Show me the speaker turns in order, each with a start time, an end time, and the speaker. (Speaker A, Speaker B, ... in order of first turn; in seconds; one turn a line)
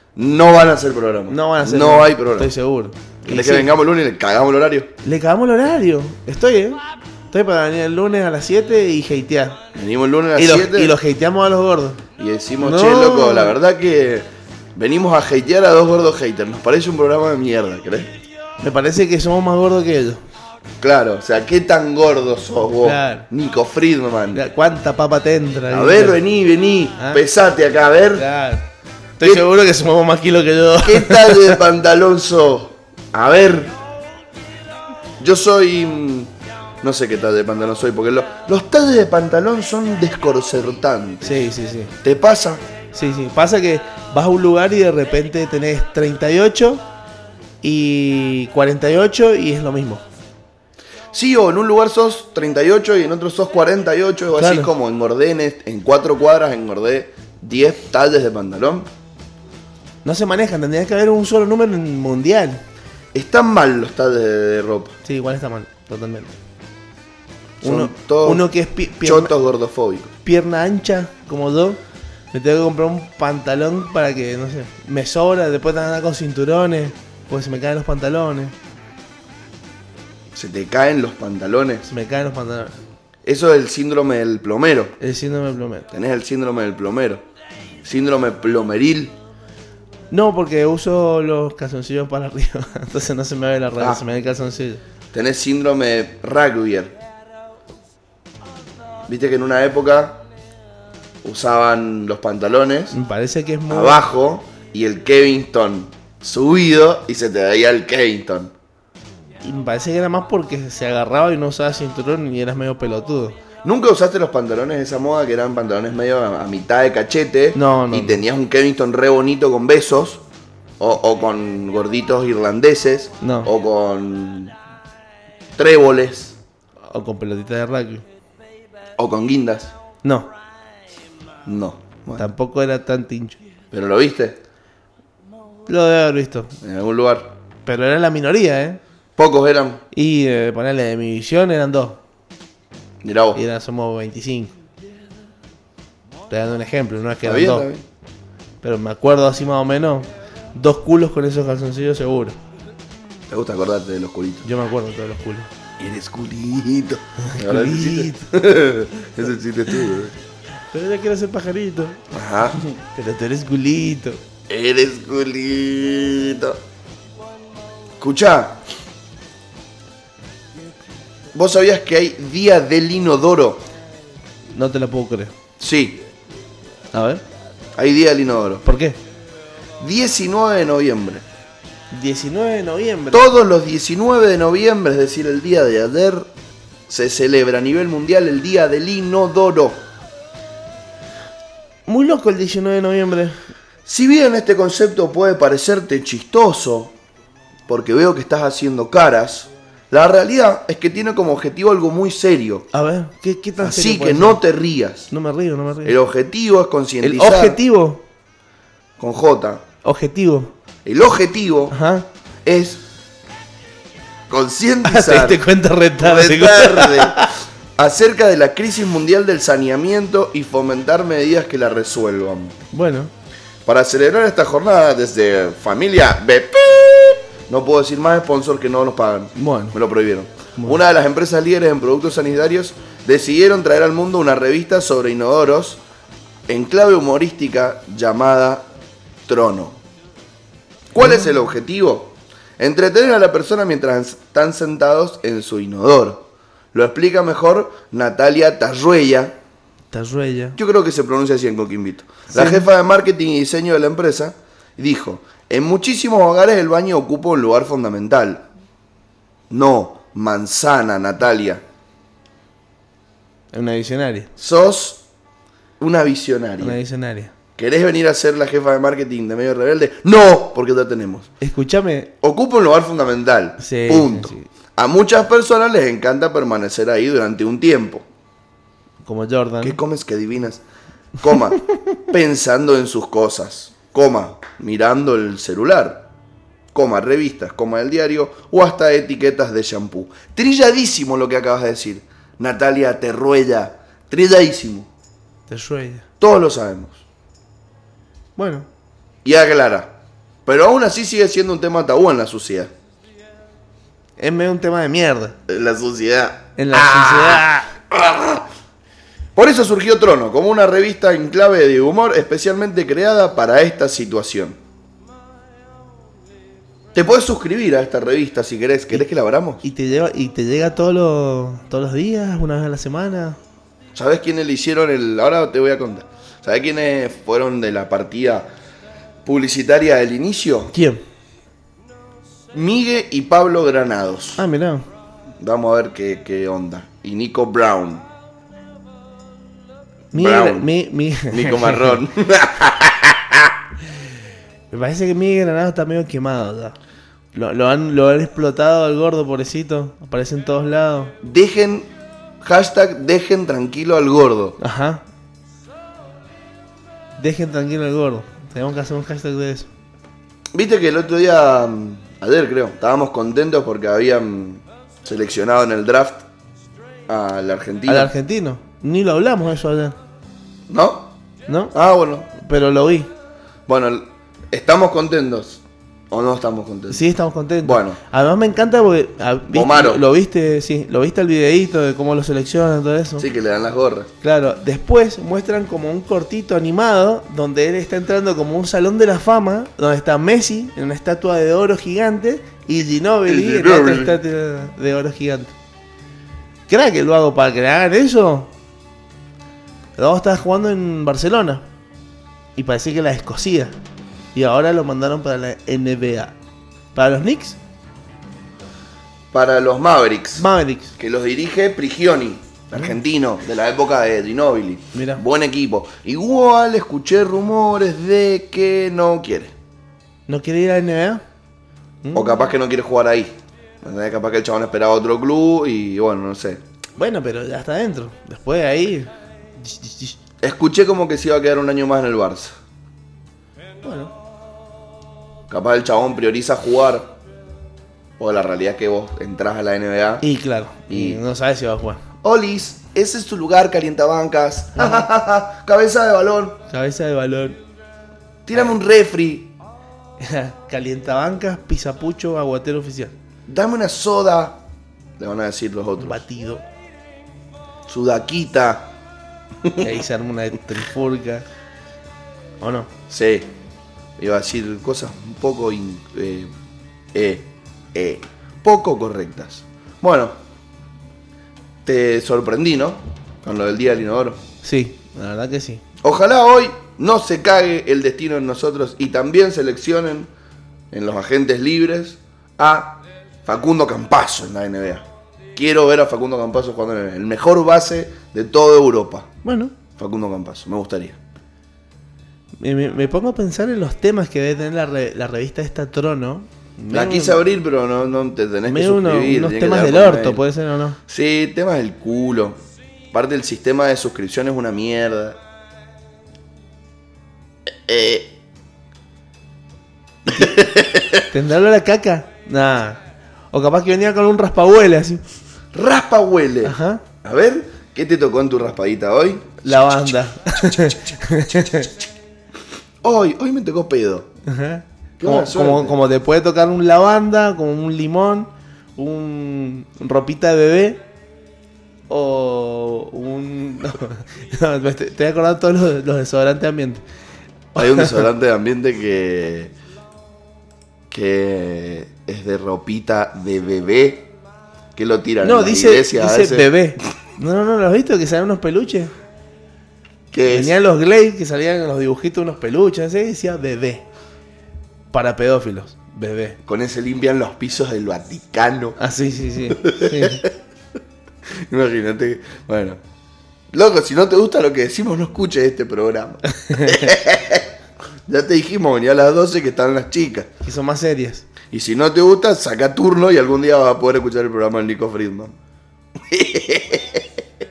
Speaker A: 0.1-2.5
Speaker B: 1.3-3.7
Speaker A: 3.2-4.9
Speaker B: 5.0-6.8
Speaker B: 7.3-9.6
Speaker A: 9.7-11.0
Speaker B: 10.3-12.0
Speaker A: 12.2-18.1
Speaker B: 12.6-13.5
Speaker B: 18.6-20.2
Speaker A: 20.8-24.4
Speaker B: 22.8-23.3
Speaker B: 24.3-26.2
Speaker A: 25.7-28.2
Speaker B: 27.0-27.2
Speaker B: 28.1-28.7
Speaker B: 29.2-31.6
Speaker A: 30.8-33.8
Speaker A: 35.2-41.4
Speaker B: 41.2-41.9
Speaker A: 42.0-42.6
Speaker B: 42.9-46.8
Speaker B: 47.6-50.0
Speaker A: 51.1-58.9
Speaker B: 54.4-54.7
Speaker B: 60.0-62.6
Speaker A: 63.1-64.9
Speaker B: 65.0-66.3
Speaker A: 67.6-68.5
Speaker B: 67.6-69.3
Speaker A: 69.0-70.1
Speaker B: 70.2-71.8
Speaker B: 72.3-78.5
Speaker A: 80.3-81.9
Speaker B: 81.9-82.8
Speaker A: 83.2-85.0
Speaker B: 85.0-85.9
Speaker A: 85.9-87.2
Speaker A: 87.8-89.2
Speaker B: 90.1-94.8
Speaker A: 95.1-97.0
Speaker A: 99.1-100.2
Speaker A: 101.2-103.0
Speaker B: 102.9-104.0
Speaker A: 103.7-108.5
Speaker B: 109.4-113.4
Speaker A: 113.6-120.2
Speaker B: 117.5-118.2
Speaker A: 120.8-124.5
Speaker B: 123.2-123.5
Speaker A: 125.6-126.3
Speaker B: 126.9-128.0
Speaker A: 129.0-129.7
Speaker B: 130.0-130.3
Speaker A: 131.4-132.3
Speaker B: 132.2-133.4
Speaker A: 133.7-134.4
Speaker B: 135.7-136.6
Speaker A: 136.6-137.3
Speaker B: 137.7-138.8
Speaker A: 139.2-139.8
Speaker B: 139.9-142.0
Speaker A: 143.0-143.4
Speaker B: 143.3-144.5
Speaker B: 146.3-147.7
Speaker A: 147.2-147.8
Speaker B: 148.6-152.4
Speaker A: 153.3-154.4
Speaker B: 154.4-155.5
Speaker A: 155.8-160.1
Speaker B: 157.2-158.2
Speaker B: 160.7-162.0
Speaker A: 162.1-162.6
Speaker B: 162.6-164.2
Speaker A: 164.5-166.6
Speaker A: 168.0-168.6
Speaker A: 171.3-173.6
Speaker B: 174.5-175.3
Speaker A: 175.6-176.0
Speaker B: 176.9-177.2
Speaker A: 177.8-178.6
Speaker B: 178.6-179.0
Speaker A: 179.8-181.2
Speaker B: 181.9-183.3
Speaker A: 183.1-186.3
Speaker A: 186.9-189.8
Speaker B: 191.9-193.4
Speaker A: 193.8-196.9
Speaker A: 197.7-202.7
Speaker B: 202.7-204.4
Speaker A: 203.6-205.1
Speaker B: 205.1-205.9
Speaker A: 205.8-207.6
Speaker B: 207.0-208.0
Speaker A: 209.0-209.6
Speaker B: 209.8-210.5
Speaker A: 210.8-211.8
Speaker B: 211.7-212.1
Speaker A: 212.4-212.8
Speaker A: 214.3-215.4
Speaker B: 214.8-217.3
Speaker A: 216.0-222.6
Speaker B: 222.7-223.1
Speaker A: 223.7-235.8
Speaker B: 229.3-229.8
Speaker A: 236.5-238.7
Speaker A: 239.2-239.8
Speaker A: 240.9-249.3
Speaker B: 249.9-250.6
Speaker A: 250.6-258.4
Speaker B: 252.3-252.6
Speaker A: 259.5-261.6
Speaker B: 263.5-264.3
Speaker A: 264.4-265.0
Speaker A: 265.8-266.8
Speaker B: 266.6-267.3
Speaker A: 267.6-271.3
Speaker B: 271.4-272.1
Speaker A: 272.2-278.1
Speaker B: 273.6-274.5
Speaker B: 279.0-279.8
Speaker A: 279.6-280.6
Speaker A: 281.2-286.1
Speaker A: 286.7-294.9
Speaker B: 295.5-296.1
Speaker A: 296.2-297.0
Speaker B: 298.4-298.7
Speaker A: 299.2-299.9
Speaker A: 300.4-302.7
Speaker B: 304.2-305.4
Speaker A: 305.5-308.5
Speaker B: 306.6-307.7
Speaker A: 309.4-314.6
Speaker A: 316.9-319.6
Speaker B: 319.6-323.4
Speaker A: 323.9-328.5
Speaker A: 329.2-330.7
Speaker B: 330.7-331.0
Speaker A: 332.5-334.4
Speaker B: 334.4-334.9
Speaker A: 335.4-338.1
Speaker A: 340.1-340.7
Speaker B: 340.1-342.0
Speaker A: 341.3-343.6
Speaker B: 344.7-346.8
Speaker B: 347.3-351.1
Speaker A: 351.2-351.9
Speaker A: 352.4-354.6
Speaker B: 354.6-355.0
Speaker B: 357.2-359.7
Speaker A: 360.5-366.2
Speaker A: 367.1-368.1
Speaker B: 367.9-369.9
Speaker A: 370.7-371.1
Speaker B: 371.5-371.7
Speaker A: 371.7-372.3
Speaker B: 372.3-373.1
Speaker A: 373.7-377.0
Speaker B: 376.9-383.2
Speaker A: 377.6-378.0
Speaker A: 379.5-380.0
Speaker A: 383.2-384.1
Speaker B: 384.2-395.5
Speaker A: 393.2-394.2
Speaker B: 396.7-398.5
Speaker B: 399.9-401.6
Speaker B: 402.6-403.7
Speaker B: 404.3-406.3
Speaker B: 406.9-407.6
Speaker A: 409.3-419.5
Speaker B: 410.4-410.9
Speaker B: 414.9-415.2
Speaker B: 420.3-421.2
Speaker B: 422.0-422.4
Speaker A: 422.1-426.6
Speaker B: 427.0-430.2
Speaker A: 430.4-432.6
Speaker B: 433.8-434.1
Speaker A: 435.5-437.1
Speaker A: 438.2-440.2
Speaker B: 440.2-442.0
Speaker A: 440.9-441.2
Speaker A: 442.2-446.6
Speaker B: 444.8-445.1
Speaker B: 446.7-447.6
Speaker A: 448.4-449.5
Speaker B: 450.2-453.1
Speaker A: 453.5-454.6
Speaker A: 455.2-456.2
Speaker B: 456.0-456.6
Speaker A: 457.9-458.9
Speaker A: 459.6-459.9
Speaker B: 459.8-461.4
Speaker B: 462.6-462.9
Speaker A: 463.1-463.5
Speaker A: 464.2-466.5
Speaker A: 467.1-470.4
Speaker A: 471.8-474.4
Speaker B: 474.6-475.8
Speaker A: 476.0-480.3
Speaker A: 480.9-489.3
Speaker B: 489.4-489.7
Speaker A: 490.0-491.2
Speaker B: 492.6-497.4
Speaker A: 496.9-500.4
Speaker B: 498.7-501.0
Speaker A: 501.1-502.6
Speaker A: 503.1-505.4
Speaker A: 507.6-508.4
Speaker A: 510.2-511.2
Speaker B: 511.3-513.0
Speaker B: 513.5-515.2
Speaker A: 515.7-521.9
Speaker B: 516.6-517.0
Speaker B: 519.6-521.9
Speaker A: 523.0-524.3
Speaker B: 524.5-531.0
Speaker A: 525.2-526.0
Speaker B: 532.1-537.0
Speaker B: 537.8-538.2
Speaker A: 537.8-539.7
Speaker A: 541.1-544.3
Speaker A: 545.0-546.7
Speaker B: 545.4-549.1
Speaker A: 550.3-550.8
Speaker B: 550.5-554.0
Speaker B: 555.1-556.6
Speaker A: 556.6-559.0
Speaker B: 559.0-560.4
Speaker A: 559.7-560.5
Speaker A: 561.6-563.0
Speaker A: 563.7-567.7
Speaker B: 566.5-567.1
Speaker A: 568.3-570.5
Speaker B: 570.6-571.5
Speaker A: 571.7-575.5
Speaker A: 576.3-577.3